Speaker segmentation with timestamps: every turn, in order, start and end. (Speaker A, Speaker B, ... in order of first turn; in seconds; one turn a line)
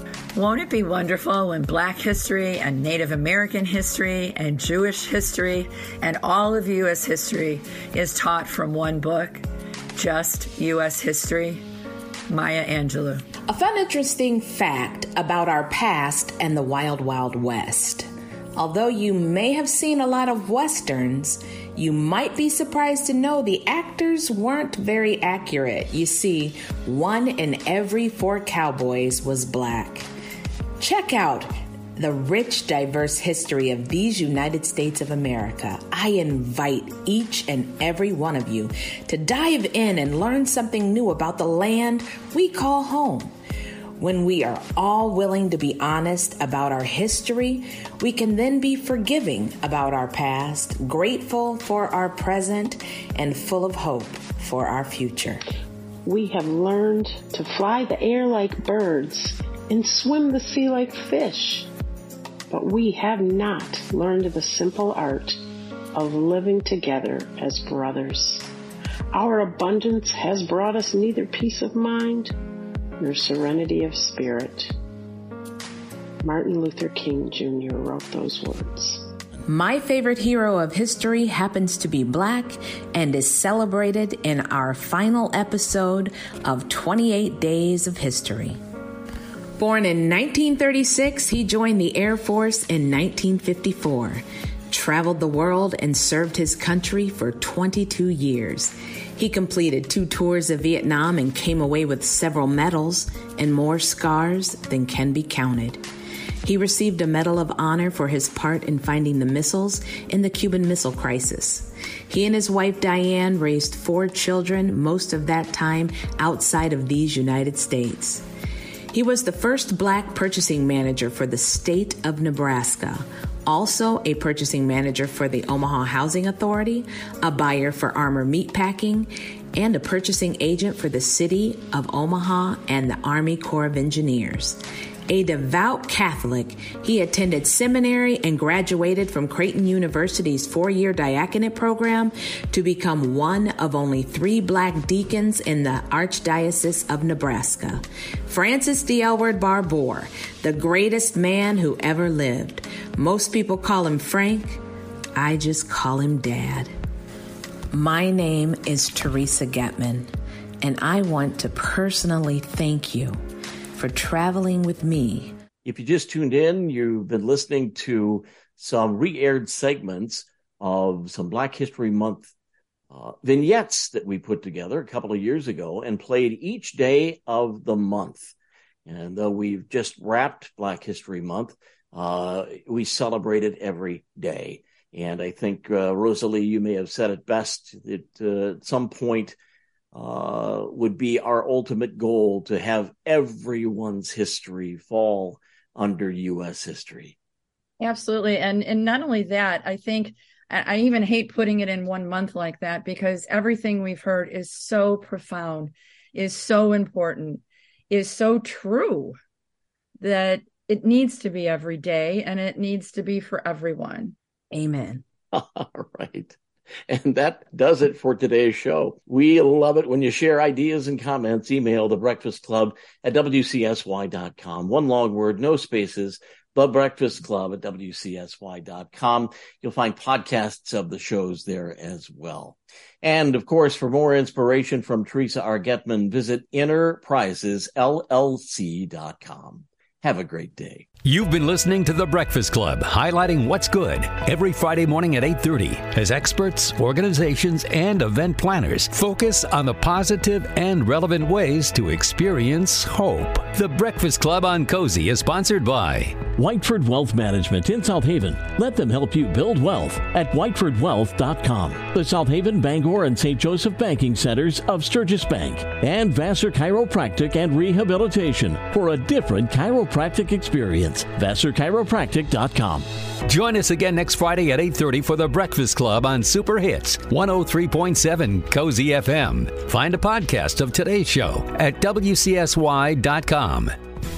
Speaker A: 0.3-9.4
Speaker A: 9.9-11.6
Speaker A: 12.3-13.2
Speaker B: 13.5-30.1
Speaker B: 30.8-43.3
Speaker B: 44.0-55.4
Speaker C: 56.0-61.7
Speaker C: 62.5-65.4
Speaker C: 65.9-68.5
Speaker C: 69.1-72.3
Speaker C: 73.0-74.7
Speaker C: 76.2-79.1
Speaker B: 79.5-88.6
Speaker B: 89.6-105.8
Speaker B: 106.4-118.2
Speaker B: 118.9-154.6
Speaker B: 155.1-156.7
Speaker B: 157.7-160.1
Speaker B: 160.6-163.2
Speaker B: 163.8-165.3
Speaker D: 165.6-172.3
Speaker D: 172.9-178.3
Speaker D: 178.9-189.4
Speaker D: 189.9-197.2
Speaker A: 197.8-209.2
Speaker A: 210.0-214.1
Speaker B: 214.5-215.0
Speaker D: 215.3-216.4
Speaker D: 216.9-240.9
Speaker E: 241.0-256.2
Speaker F: 256.4-272.9
Speaker E: 273.3-283.7